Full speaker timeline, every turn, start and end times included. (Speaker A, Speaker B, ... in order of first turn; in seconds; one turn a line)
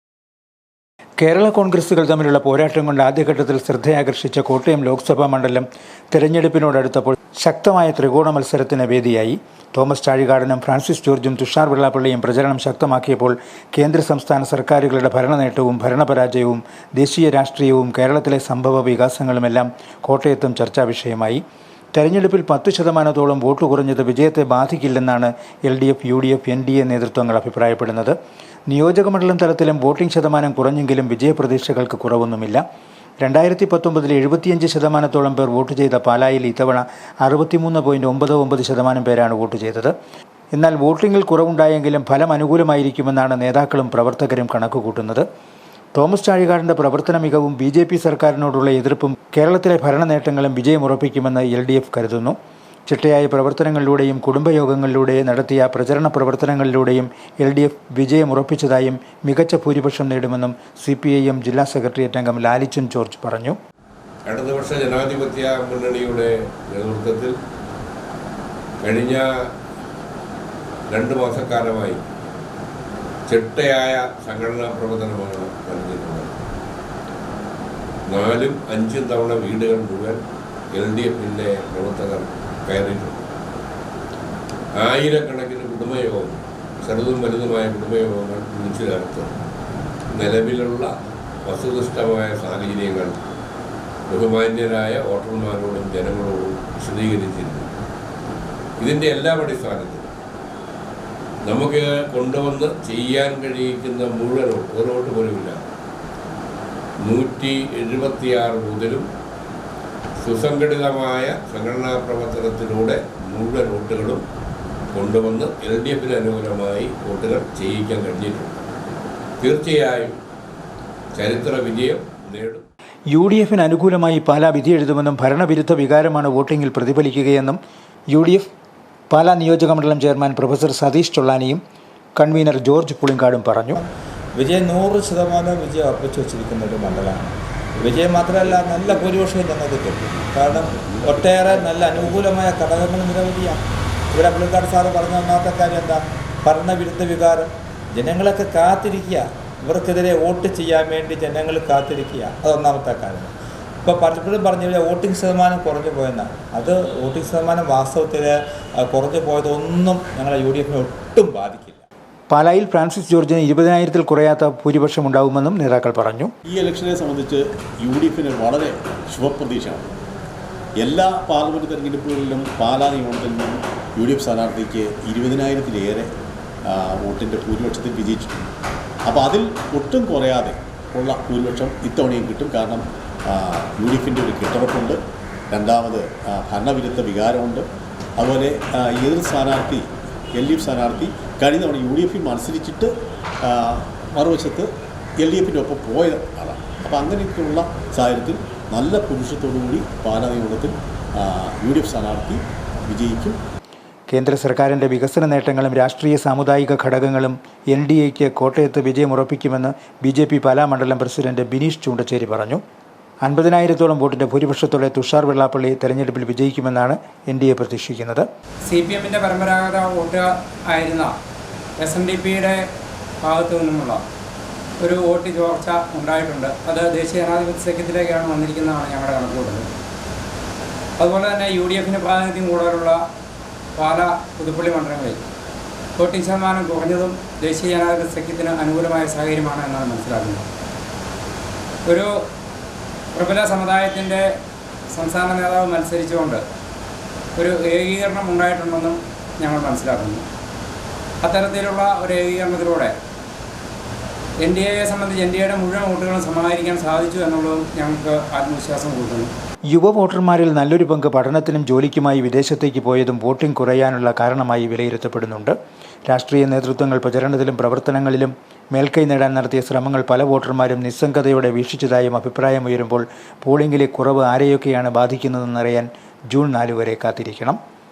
Speaker A: 1.2-21.4
Speaker A: 21.9-28.1
Speaker A: 28.7-32.6
Speaker A: 33.2-39.9
Speaker A: 40.5-45.3
Speaker A: 46.0-52.4
Speaker A: 52.9-63.6
Speaker B: 64.3-67.4
Speaker B: 68.8-69.3
Speaker B: 70.9-72.0
Speaker B: 73.3-76.4
Speaker B: 78.1-80.2
Speaker B: 80.7-83.2
Speaker B: 84.8-89.4
Speaker B: 90.1-90.9
Speaker B: 91.5-93.2
Speaker B: 94.1-97.7
Speaker B: 98.8-100.1
Speaker B: 101.5-105.7
Speaker B: 107.0-109.1
Speaker B: 110.2-114.2
Speaker B: 114.9-118.5
Speaker B: 119.4-120.2
Speaker B: 121.2-122.7
Speaker A: 123.1-127.6
Speaker A: 128.1-128.5
Speaker A: 129.1-131.6
Speaker A: 132.2-133.8
Speaker C: 133.8-143.6
Speaker D: 138.2-139.2
Speaker D: 139.8-142.4
Speaker C: 144.1-161.8
Speaker A: 162.3-166.3
Speaker D: 166.5-169.9
Speaker D: 170.8-176.1
Speaker D: 176.7-178.5
Speaker D: 179.1-185.0
Speaker D: 185.5-187.7
Speaker D: 188.2-192.9
Speaker D: 193.4-194.7
Speaker D: 195.2-203.4
Speaker A: 204.1-212.6
Speaker A: 213.2-218.3
Speaker E: 218.7-221.1
Speaker E: 221.8-222.6
Speaker E: 223.2-224.0
Speaker E: 224.8-229.7
Speaker E: 231.0-233.0
Speaker E: 233.8-235.2
Speaker E: 236.0-240.5
Speaker E: 241.8-242.2
Speaker E: 243.1-244.3
Speaker E: 244.9-246.4
Speaker E: 247.4-250.2
Speaker E: 251.2-252.9
Speaker E: 254.4-259.3
Speaker A: 259.7-265.6
Speaker A: 266.1-277.6